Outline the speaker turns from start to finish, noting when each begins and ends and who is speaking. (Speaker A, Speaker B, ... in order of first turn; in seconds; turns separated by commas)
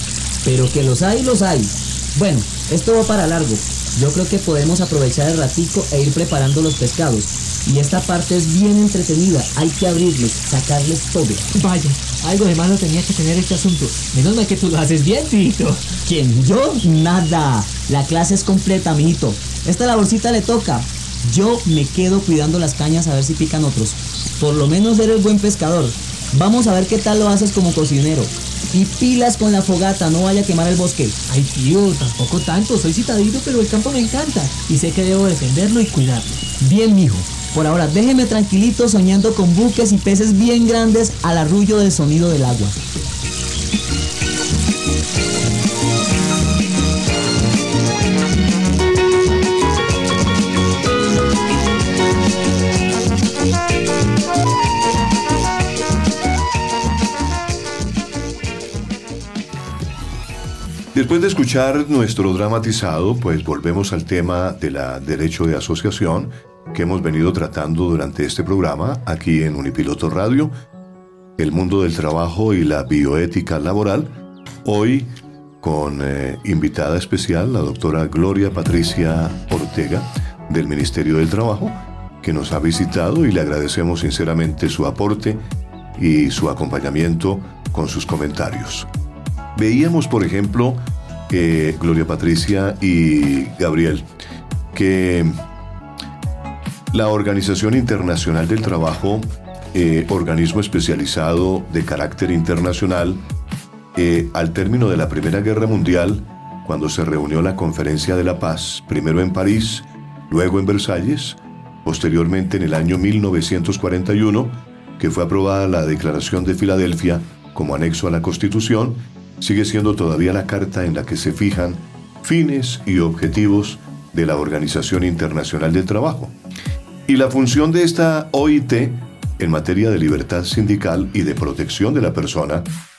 Speaker A: 0.4-11.5, Speaker B: 11.5-16.0, Speaker A: 16.0-31.2, Speaker B: 31.3-36.5, Speaker A: 36.6-42.8, Speaker C: 60.9-70.5, Speaker C: 71.4-74.1, Speaker C: 74.6-75.1, Speaker C: 75.6-85.4, Speaker C: 86.0-88.9, Speaker C: 89.5-94.0, Speaker C: 94.7-95.3, Speaker C: 96.9-103.2, Speaker C: 103.9-126.3, Speaker C: 127.1-132.7